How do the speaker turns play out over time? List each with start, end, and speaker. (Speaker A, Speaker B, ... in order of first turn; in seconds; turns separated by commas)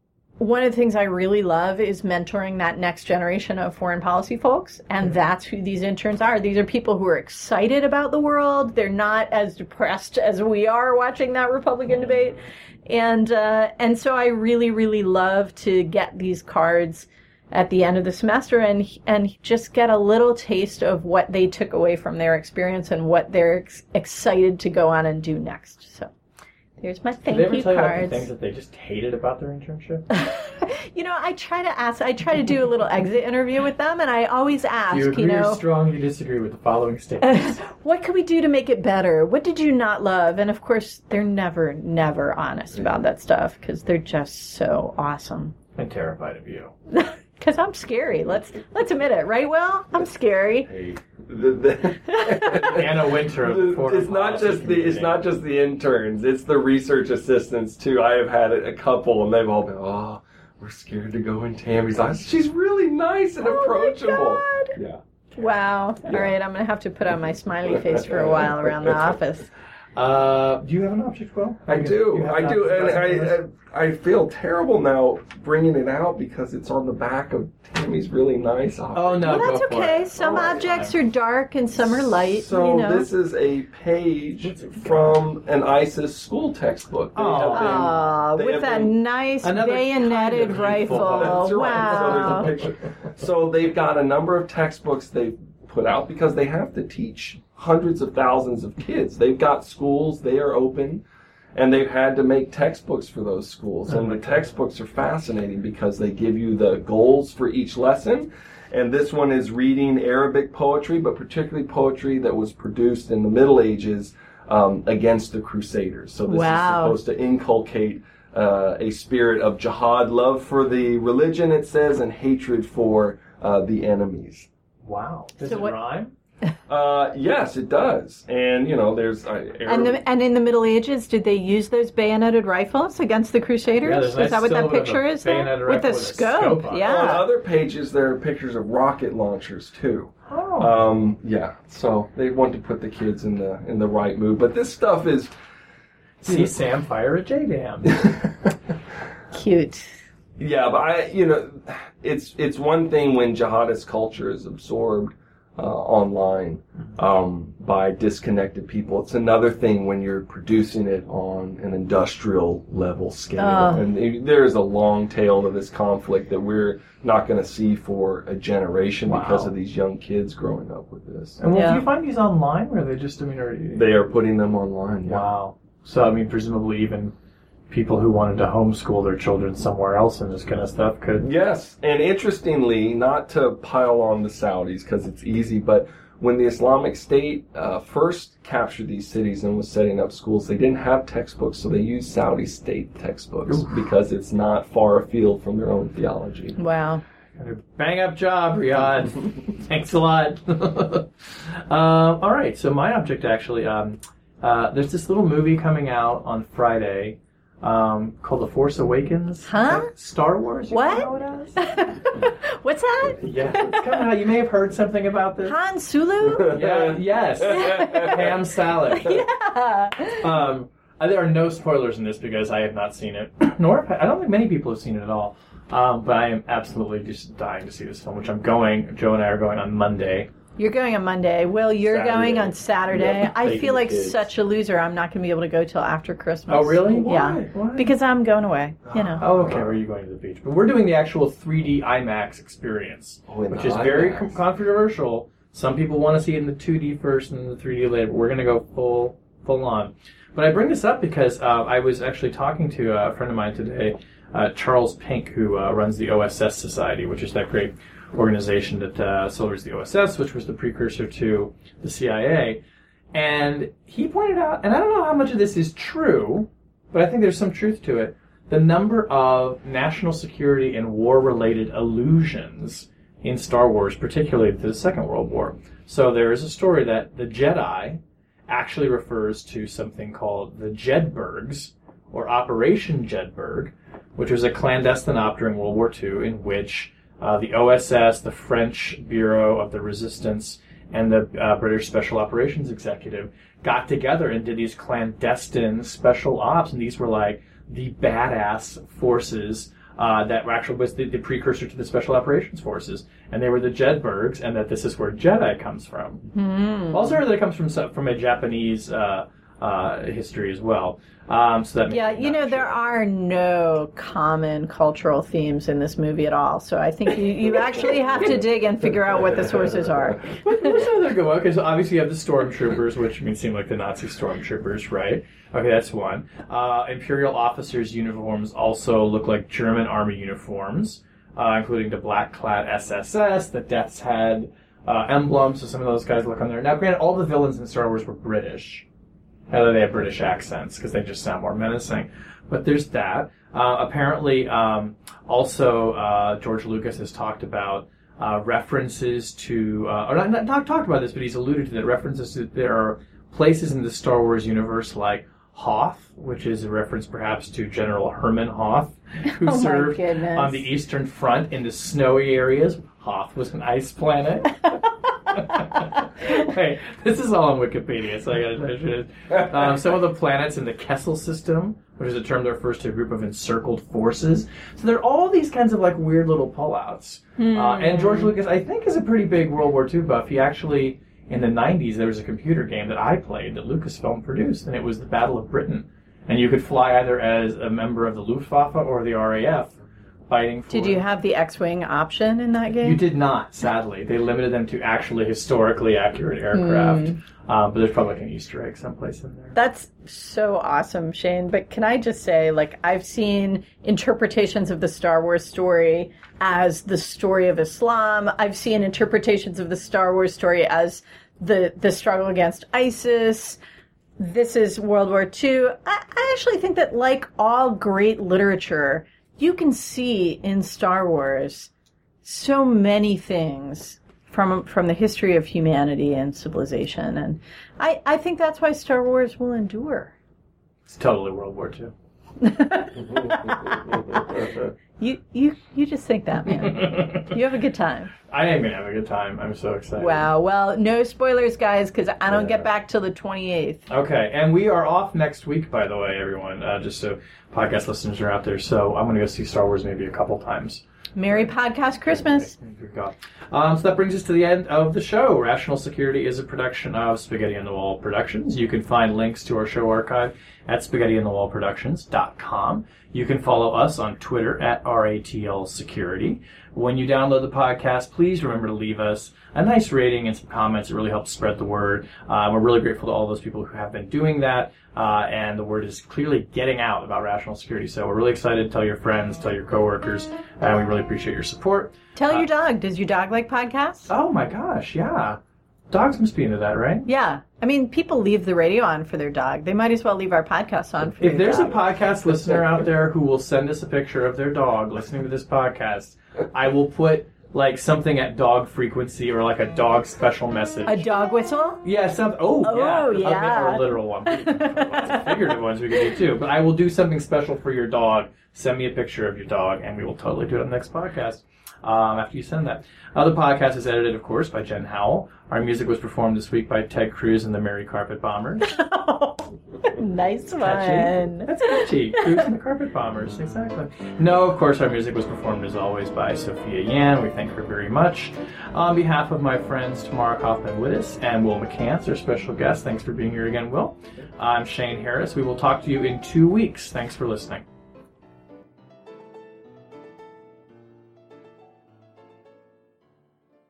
Speaker A: 0.4-26.1, Speaker A: 26.8-28.3, Speaker B: 27.3-30.1, Speaker A: 30.1-35.6, Speaker B: 34.9-37.5, Speaker A: 37.2-45.5, Speaker B: 45.8-46.7, Speaker A: 46.9-50.7, Speaker C: 50.7-65.0, Speaker A: 52.0-52.6, Speaker B: 52.5-55.2, Speaker A: 63.4-64.8, Speaker A: 65.3-69.5, Speaker C: 67.6-69.2, Speaker B: 70.0-73.4, Speaker C: 71.7-79.6, Speaker B: 78.9-81.0, Speaker A: 79.2-83.1, Speaker C: 80.2-80.6, Speaker C: 81.9-89.0, Speaker B: 84.4-85.2, Speaker B: 87.1-87.9, Speaker A: 87.5-92.5, Speaker B: 89.4-92.6, Speaker C: 90.5-101.0, Speaker C: 101.5-124.5, Speaker B: 103.9-104.2, Speaker A: 116.3-117.0, Speaker B: 124.8-126.1, Speaker A: 125.4-125.8, Speaker C: 126.7-130.0, Speaker A: 129.7-137.2, Speaker B: 133.8-136.9, Speaker C: 136.8-145.3, Speaker B: 140.3-140.7, Speaker B: 146.2-148.1, Speaker C: 148.0-148.3, Speaker A: 149.3-149.9, Speaker C: 150.4-171.4, Speaker A: 163.4-163.8, Speaker B: 169.1-169.5, Speaker B: 171.4-173.9, Speaker A: 171.5-171.8, Speaker C: 173.7-175.2, Speaker B: 175.1-177.1, Speaker B: 177.7-181.3, Speaker C: 181.2-196.6, Speaker B: 193.4-193.7, Speaker A: 196.6-197.0, Speaker B: 197.4-211.6, Speaker A: 209.4-209.9, Speaker A: 210.7-214.0, Speaker B: 213.2-215.6, Speaker A: 215.4-216.6, Speaker C: 216.3-218.4, Speaker B: 216.5-219.2, Speaker A: 217.5-218.2, Speaker A: 218.9-220.3, Speaker B: 220.2-230.3, Speaker A: 230.6-239.2, Speaker C: 231.8-234.3, Speaker B: 236.5-237.9, Speaker C: 238.8-239.8, Speaker B: 239.2-262.6, Speaker C: 243.3-244.3, Speaker B: 263.1-306.3, Speaker A: 306.3-307.2, Speaker B: 306.9-312.8, Speaker A: 311.9-320.8, Speaker C: 317.6-320.1, Speaker B: 320.4-338.8, Speaker B: 339.5-364.7, Speaker A: 359.3-360.6, Speaker B: 365.3-389.7, Speaker A: 377.4-378.3, Speaker B: 390.3-391.0, Speaker A: 390.7-393.0, Speaker B: 392.8-399.5, Speaker A: 396.5-397.2, Speaker A: 399.5-413.6, Speaker A: 414.2-421.7, Speaker A: 422.2-430.1, Speaker B: 430.9-431.9, Speaker A: 432.4-434.4, Speaker C: 433.2-434.6, Speaker A: 435.0-438.1, Speaker B: 436.6-437.3, Speaker B: 438.3-440.3, Speaker A: 440.0-443.9, Speaker B: 443.9-451.5, Speaker A: 451.1-452.5, Speaker B: 452.1-482.5, Speaker A: 482.1-484.1, Speaker B: 484.1-485.4, Speaker B: 485.9-487.1, Speaker A: 487.1-491.8, Speaker B: 491.2-501.1, Speaker A: 500.9-501.8, Speaker B: 501.8-518.7, Speaker A: 502.6-506.0, Speaker A: 518.7-522.4, Speaker B: 520.6-537.6